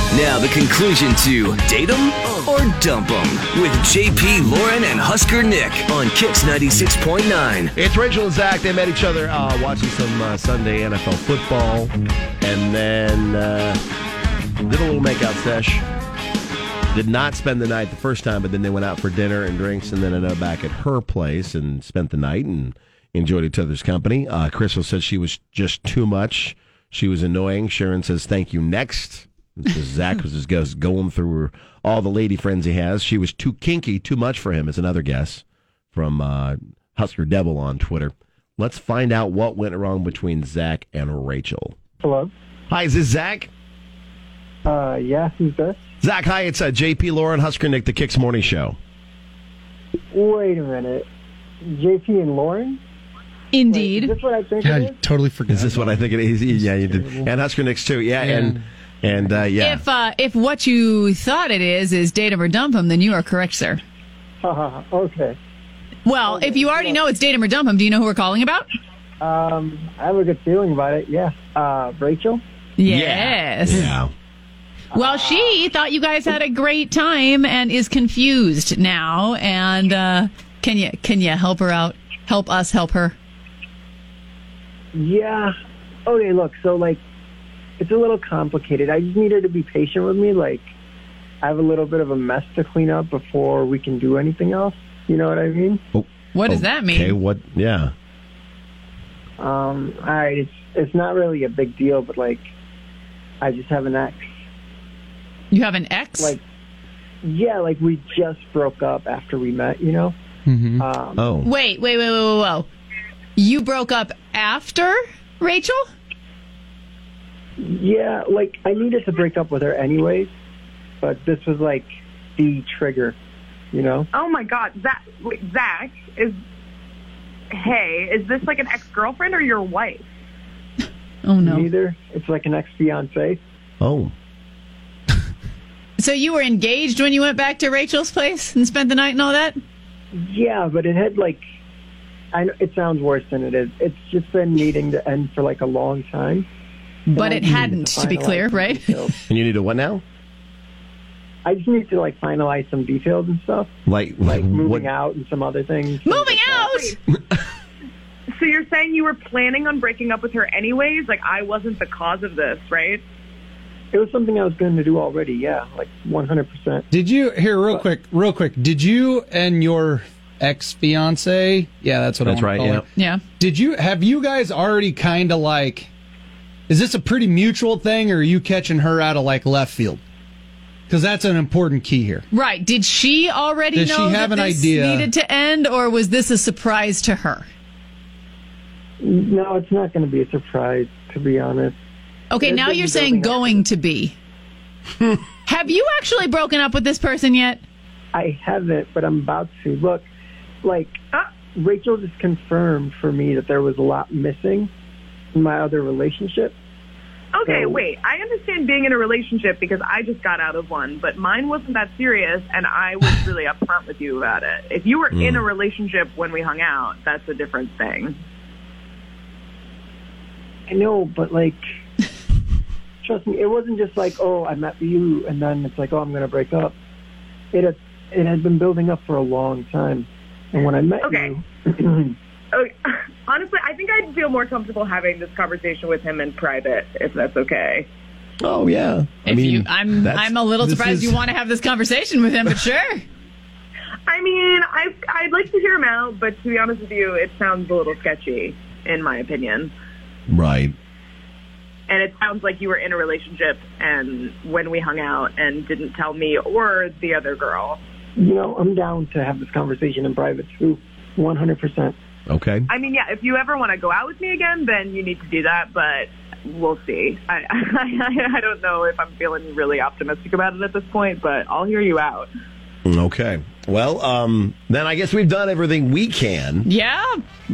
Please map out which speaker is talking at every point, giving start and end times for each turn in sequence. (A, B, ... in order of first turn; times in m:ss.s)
0:00.1-0:07.7 A
0:07.7-0:13.8 B
0:14.6-0:15.8 B
0:16.9-0:41.7 B
0:42.0-0:42.3 C
0:42.7-0:43.5 B
0:44.6-0:45.8 C
0:46.0-0:48.8 B
0:50.1-0:51.1 C
0:51.6-0:52.8 C
0:53.5-0:54.1 D
0:53.7-0:55.0 C
0:54.6-0:57.3 E
0:55.5-0:59.8 B
0:58.2-0:58.6 E
0:59.6-1:03.8 D
1:04.4-1:05.4 C
1:06.0-1:08.7 D
1:06.2-1:07.0 C
1:09.2-1:12.4 C
1:12.8-1:13.9 D
1:12.8-1:14.1 B
1:14.9-1:15.5 C
1:14.9-1:23.2 D
1:24.9-1:25.5 C
1:26.0-1:27.0 C
1:27.8-1:30.7 C
1:31.4-1:35.8 C
1:35.9-1:37.9 B
1:36.3-1:37.2 D
1:39.4-1:42.5 C
1:43.4-1:44.3 C
1:45.5-1:46.4 D
1:47.2-1:50.1 C
1:50.4-1:50.8 E
1:50.8-1:51.2 C
1:51.2-1:51.5 B
1:51.4-1:52.7 D
1:53.4-1:55.8 D
1:57.6-2:00.3 C
2:01.0-2:03.2 C
2:03.7-2:04.1 C
2:04.1-2:06.4 F
2:07.5-2:10.0 F
2:11.2-2:11.7 D
2:11.4-2:13.4 C
2:13.8-2:14.1 B
2:16.0-2:19.6 D
2:20.1-2:21.4 C
2:22.3-2:26.4 C
2:27.1-2:29.0 D
2:27.1-2:29.1 C
2:29.3-2:30.0 B
2:31.4-2:33.7 C
2:33.8-2:34.9 B
2:34.2-2:36.8 C
2:36.0-2:37.0 D
2:36.7-2:36.9 F
2:38.4-2:43.0 F
2:43.9-2:46.9 C
2:46.9-2:52.8 E
2:52.2-2:52.8 B
2:53.0-2:53.2 D
2:53.4-2:55.9 E
2:56.7-3:00.0 E
3:00.9-3:02.2 E
3:02.3-3:07.5 D
3:03.7-3:05.1 E
3:09.0-3:11.7 C
3:12.3-3:14.1 D
3:12.4-3:13.6 C
3:15.4-3:17.6 D
3:18.1-3:20.0 C
3:20.6-3:21.0 C
3:21.5-3:24.7 C
3:25.3-3:26.5 C
3:27.3-3:38.2 F
3:27.4-3:27.8 C
3:35.1-3:35.4 B
3:40.7-3:41.6 C
3:43.0-3:46.7 C
3:47.5-3:52.1 C
3:51.0-3:51.4 F
3:52.5-3:57.9 F
3:58.4-4:00.3 B
3:59.2-4:03.0 D
4:00.6-4:01.2 E
4:04.1-4:09.7 F
4:10.3-4:10.7 B
4:11.9-4:17.8 F
4:18.2-4:21.9 C
4:22.3-4:22.7 B
4:22.7-4:32.3 F
4:32.8-4:36.7 B
4:36.6-4:37.2 D